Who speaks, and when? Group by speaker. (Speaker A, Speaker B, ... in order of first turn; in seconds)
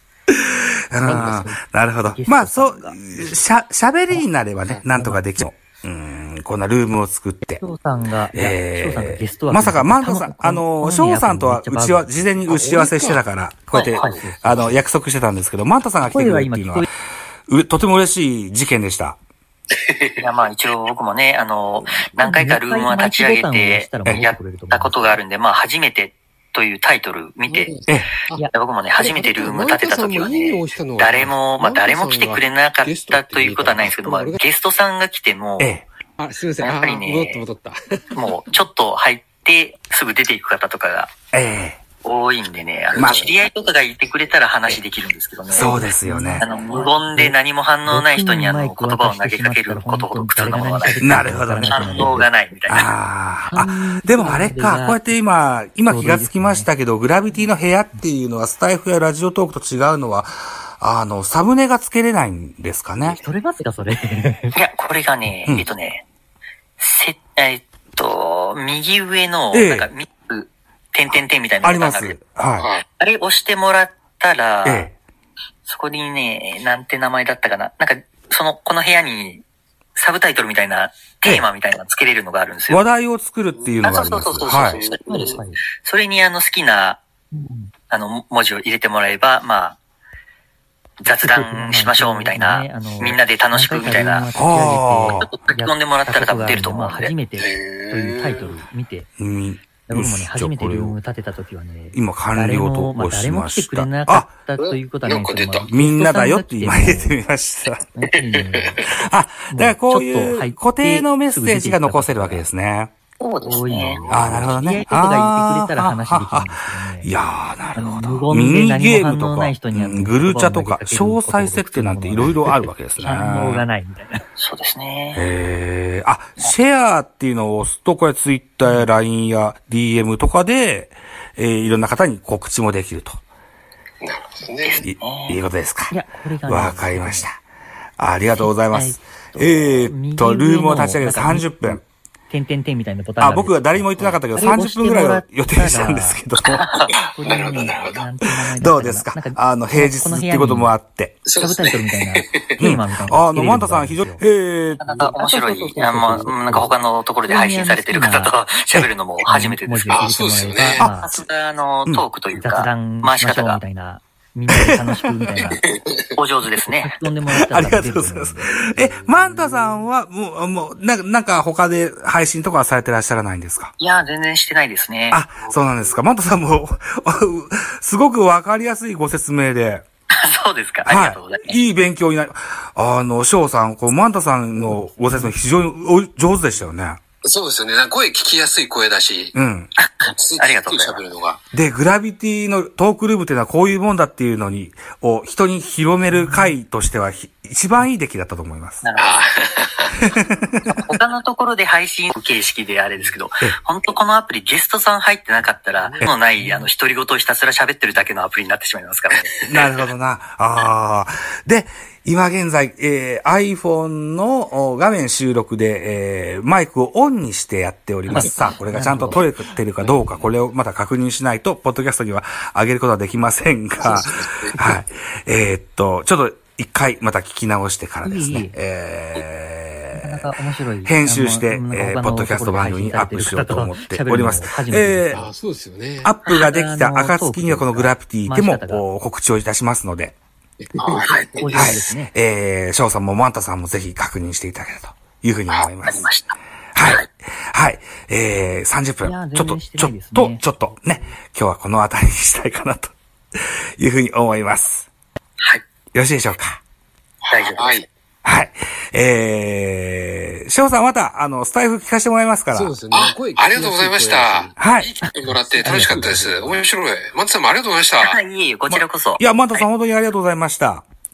Speaker A: 0.3-7.6, 8.3-16.9, 17.5-19.2, 24.1-24.4, 35.6-35.9, 41.3-41.8, 43.0-43.3, 45.5-46.4, 51.0-63.2, 69.5-69.9, 71.1-72.7, 74.6-74.9, 82.7-84.8, 94.3-95.3, 99.2-101.0, 101.9-104.3, 105.7-107.8, 108.8-112.9, 114.1-123.7, 125.1-133.2, 134.8-135.9, 136.4-137.4, 138.0-141.8, 143.2-146.6, 148.5-151.2, 152.6-154.8, 160.8-161.0, 164.5-165.1, 167.3-173.7, 175.1-179.8, 180.8-187.0, 189.3-189.7, 191.5-198.8, 200.0-200.7, 209.4-230.3, 230.8-235.3, 236.0-240.1, 241.5-246.1, 246.7-254.9, 255.9-256.6, 258.2-262.8, 264.6-264.9, 268.7-270.9
Speaker B: 0.9-1.5, 27.5-28.4, 28.9-34.4, 36.2-38.1, 205.7-206.5, 235.1-236.1, 240.6-241.0, 262.5-264.6, 265.5-266.6
Speaker C: 2.1-3.3, 4.1-5.2, 7.5-12.1, 13.9-14.8, 16.0-16.9, 22.2-25.2, 45.5-47.3, 47.9-52.3, 53.5-55.1, 55.9-56.7, 63.1-64.6, 85.1-85.6, 87.3-87.7, 91.1-99.1, 99.9-107.2, 108.0-108.9, 109.5-112.5, 113.4-117.1, 117.7-124.2, 135.9-137.3, 138.3-146.2, 147.0-150.7, 151.3-154.2, 154.9-156.7, 157.3-158.3, 159.2-161.1, 162.3-165.6, 166.8-168.5, 196.1-196.4, 218.1-219.2, 228.0-228.6, 229.9-235.2, 236.2-238.8, 241.3-242.1, 249.0-250.4, 265.6-266.5
Speaker D: 12.5-13.2, 19.7-20.3, 72.6-72.8, 84.6-85.4, 97.4-98.6, 104.6-105.7, 108.3-108.8, 113.7-114.5, 134.0-134.8, 146.9-148.0, 151.2-152.6, 159.9-160.8, 165.4-166.1, 187.2-189.3, 190.1-191.4, 199.0-200.0, 223.9-224.6, 240.8-241.8, 257.2-257.9, 262.9-268.2
Speaker E: 13.7-14.2, 20.2-27.7, 28.5-35.7, 36.6-37.4, 38.1-41.1, 42.0-45.7, 46.4-52.9, 64.5-66.0, 66.8-72.4, 72.9-74.9, 75.7-79.4, 80.0-82.8, 83.8-87.0, 87.9-89.8, 91.0-94.3, 95.2-97.1, 113.2-114.0, 124.4-125.2, 134.6-135.4, 146.5-146.9, 154.8-160.1, 161.0-163.6, 166.1-167.0, 173.8-175.2, 180.1-181.6, 189.8-191.1, 198.8-199.3, 200.7-209.3, 241.1-241.5, 245.5-247.0, 257.3-257.8, 268.0-269.6